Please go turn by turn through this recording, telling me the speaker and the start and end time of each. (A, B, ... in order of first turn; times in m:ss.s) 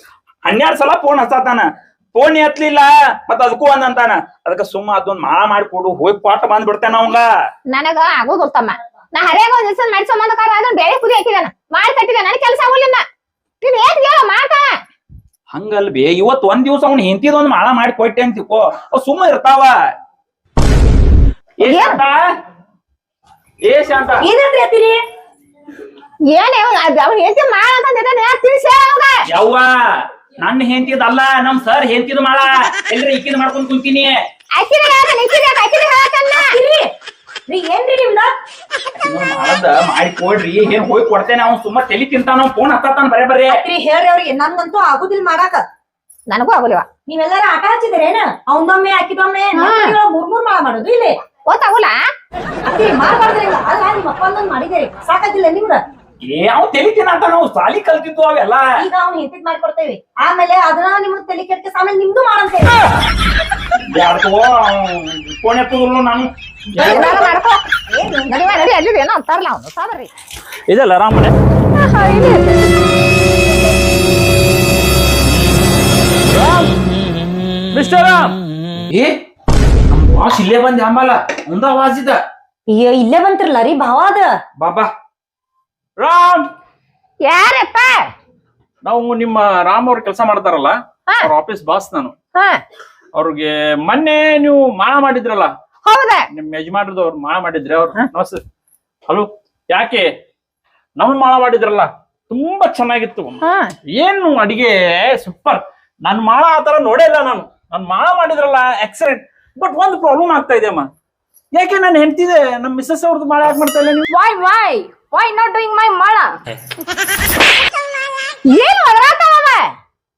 0:00.4-0:07.2 A
0:07.7-0:13.0 B
0:13.6-0:14.6 B
0:15.5-0:19.7 A
0:21.6-0:22.2 A
0:21.6-0:22.0 B
0:23.6-0:24.3 A
0:24.2-0:25.0 C
0:26.3-0:29.2 B
0:29.3-0:29.8 A
0:30.4-0:34.2 A
0:34.6-0:36.6 B
0:36.3-0:36.9 C
0:37.5-0:38.3 C
0:39.0-0:43.6 A
0:43.5-0:45.6 C
0:46.3-0:46.8 B
0:47.1-0:51.2 C
0:49.6-0:50.0 B
0:51.5-0:51.9 B
0:52.6-0:55.8 C
0:56.2-0:58.7 A
0:58.8-1:02.8 C
1:03.9-1:07.1 A
1:06.7-1:07.4 C
1:06.8-1:07.6 B
1:07.9-1:08.7 C
1:08.2-1:10.1 B
1:10.7-1:11.3 D
1:11.8-1:12.5 E
1:16.3-1:16.7 D
1:17.7-1:18.4 D
1:19.9-1:22.2 A
1:22.7-1:24.3 C
1:24.6-1:24.9 A
1:26.0-1:26.5 D
1:27.3-1:28.0 B
1:28.8-1:32.1 D
1:33.1-1:35.5 D
1:35.8-1:36.2 B
1:36.3-1:38.4 D
1:39.1-1:40.1 D
1:41.0-1:43.4 D
1:43.4-1:43.7 B
1:43.9-1:50.9 D
1:51.5-1:54.0 D
1:54.1-1:56.3 E
1:58.5-1:59.6 B